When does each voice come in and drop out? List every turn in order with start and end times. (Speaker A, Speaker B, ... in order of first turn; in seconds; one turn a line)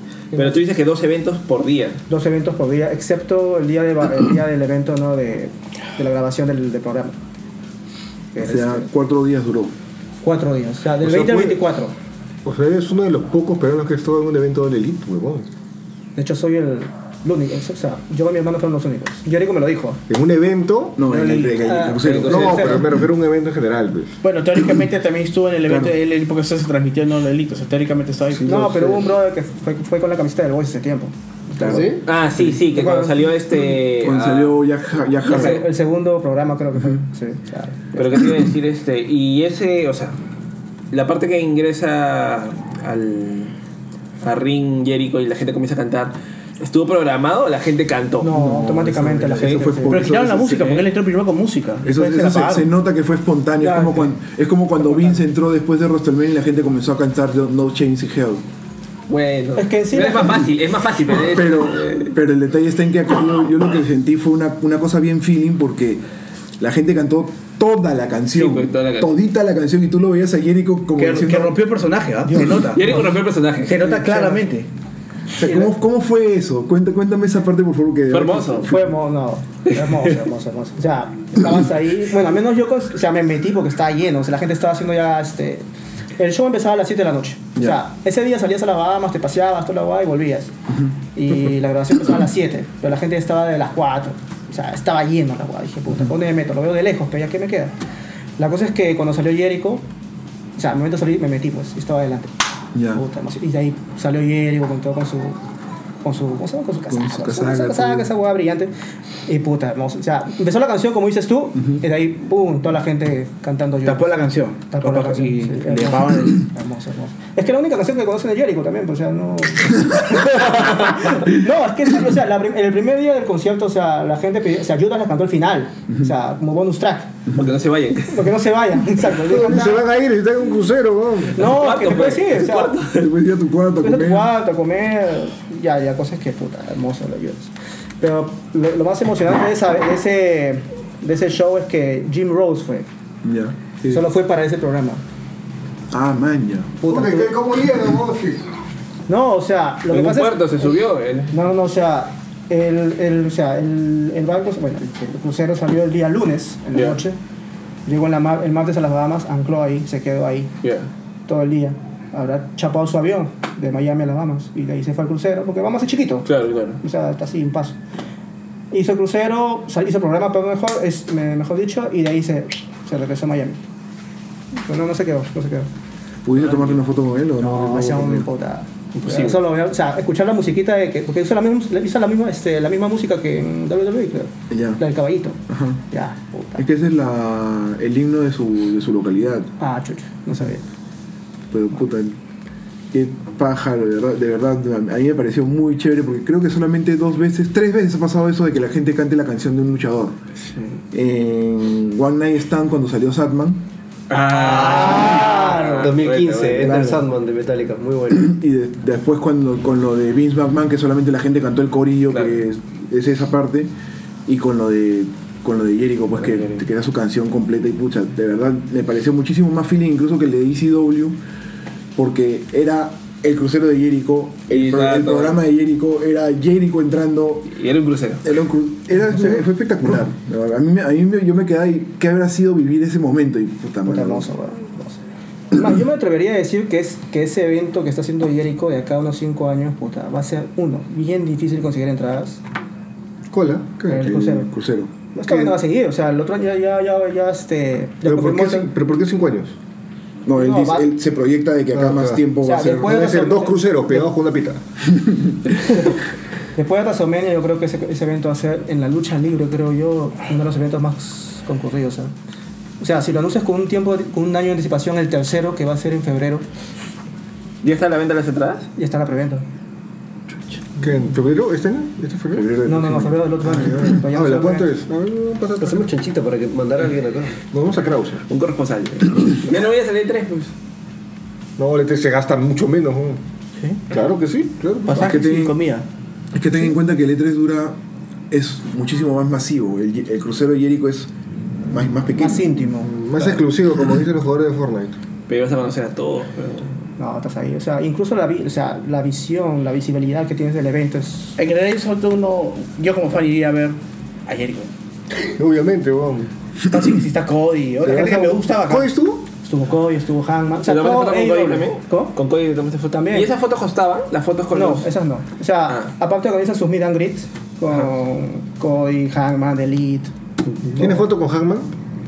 Speaker A: 0.3-0.6
Speaker B: 0.3-2.0
Speaker A: 2.1-7.2
Speaker A: 8.3-8.9
Speaker C: 8.4-9.7
Speaker A: 10.2-11.9
Speaker C: 11.0-11.6
Speaker D: 12.4-15.5
Speaker A: 16.2-20.0
Speaker D: 20.1-21.0
Speaker C: 21.0-22.9
Speaker A: 21.1-22.8
Speaker B: 22.0-22.8
Speaker D: 22.3-24.1
Speaker E: 24.2-28.7
Speaker C: 25.7-26.0
Speaker C: 28.3-29.1
Speaker A: 28.4-33.3
Speaker C: 31.6-32.0
Speaker F: 31.6-32.0
Speaker B: 32.0-34.6
Speaker C: 34.0-35.7
Speaker A: 35.2-38.3
Speaker B: 35.3-35.6
Speaker B: 38.0-40.2
Speaker B: 40.9-43.5
Speaker B: 44.2-48.4
Speaker A: 48.2-50.1
Speaker C: 48.3-50.8
Speaker B: 49.4-49.8
Speaker E: 49.9-52.7
Speaker B: 50.5-50.8
Speaker C: 51.8-58.4
Speaker A: 53.6-54.1
Speaker B: 59.1-62.1
Speaker A: 59.6-60.5
Speaker C: 61.2-66.0
Speaker C: 66.6-71.6
Speaker B: 68.3-69.1
Speaker E: 71.0-73.0
Speaker A: 72.2-73.0
Speaker B: 72.7-73.9
Speaker E: 73.7-74.7
Speaker A: 73.8-74.5
Speaker C: 75.4-78.7
Speaker B: 78.1-78.7
Speaker A: 78.6-85.7
Speaker A: 86.2-90.5
Speaker A: 91.1-97.7
Speaker A: 98.4-99.8
Speaker A: 100.6-102.3
Speaker C: 102.8-103.0
Speaker A: 102.9-105.4
Speaker A: 106.0-108.7
Speaker C: 106.9-108.1
Speaker A: 109.3-114.2
Speaker E: 113.8-116.4
Speaker A: 114.7-127.2
Speaker B: 127.3-128.3
Speaker A: 128.1-129.9
Speaker D: 129.2-131.4
Speaker A: 131.3-132.8
Speaker B: 131.4-133.0
Speaker C: 132.8-134.3
Speaker A: 133.8-142.9
Speaker C: 143.2-144.0
Speaker A: 143.9-145.0
Speaker C: 145.9-146.8
Speaker A: 146.8-147.3
Speaker D: 146.9-148.5
Speaker A: 149.1-150.7
Speaker B: 149.9-151.3
Speaker A: 151.3-157.2
Speaker B: 156.7-157.0
Speaker A: 157.9-160.5
Speaker B: 160.6-160.9
Speaker A: 161.3-166.3
Speaker B: 166.3-166.8
Speaker A: 166.8-167.8
Speaker A: 168.7-173.6
Speaker A: 174.6-175.7
Speaker C: 176.2-178.3
Speaker B: 176.4-176.7
Speaker A: 177.4-186.6
Speaker B: 179.0-179.4
Speaker C: 184.5-184.8
Speaker C: 185.5-185.8
Speaker C: 186.6-189.5
Speaker A: 189.6-190.6
Speaker C: 191.5-192.2
Speaker C: 192.9-200.2
Speaker C: 200.9-203.7
Speaker B: 204.1-207.0
Speaker F: 204.3-208.3
Speaker A: 204.4-205.9
Speaker E: 204.9-205.2
Speaker C: 208.1-213.7
Speaker C: 214.3-221.2
Speaker B: 216.2-216.6
Speaker C: 222.0-227.6
Speaker B: 224.5-225.4
Speaker B: 227.5-228.3
Speaker C: 228.2-234.3
Speaker A: 233.9-235.0
Speaker A: 235.5-242.4
Speaker D: 243.3-244.1
Speaker A: 243.9-244.5
Speaker C: 243.9-244.9
Speaker A: 245.1-248.7
Speaker D: 248.0-249.6
Speaker C: 250.3-253.0
Speaker A: 250.3-250.9
Speaker D: 251.7-252.2
Speaker A: 252.4-254.1
Speaker D: 252.8-254.6
Speaker A: 256.6-262.1
Speaker A: 262.8-266.4
Speaker B: 267.6-268.7
Speaker A: 268.8-269.4
Speaker D: 270.8-272.5
Speaker C: 272.3-273.9
Speaker A: 272.6-274.7
Speaker D: 273.9-275.9
Speaker F: 275.6-277.4
Speaker D: 277.5-278.2
Speaker B: 278.3-280.5
Speaker D: 281.6-283.2
Speaker D: 283.9-285.1
Speaker E: 284.9-285.9
Speaker C: 284.9-285.6
Speaker C: 286.3-287.8
Speaker C: 288.3-291.1
Speaker C: 291.7-292.6
Speaker A: 292.2-292.9
Speaker D: 292.8-295.0
Speaker B: 295.3-296.7
Speaker A: 297.0-301.4
Speaker E: 301.4-304.7
Speaker D: 305.1-306.3
Speaker E: 306.7-308.9
Speaker D: 307.8-309.2
Speaker A: 309.4-312.1
Speaker B: 310.7-314.9
Speaker A: 312.9-313.3
Speaker A: 314.5-320.1
Speaker D: 320.7-321.7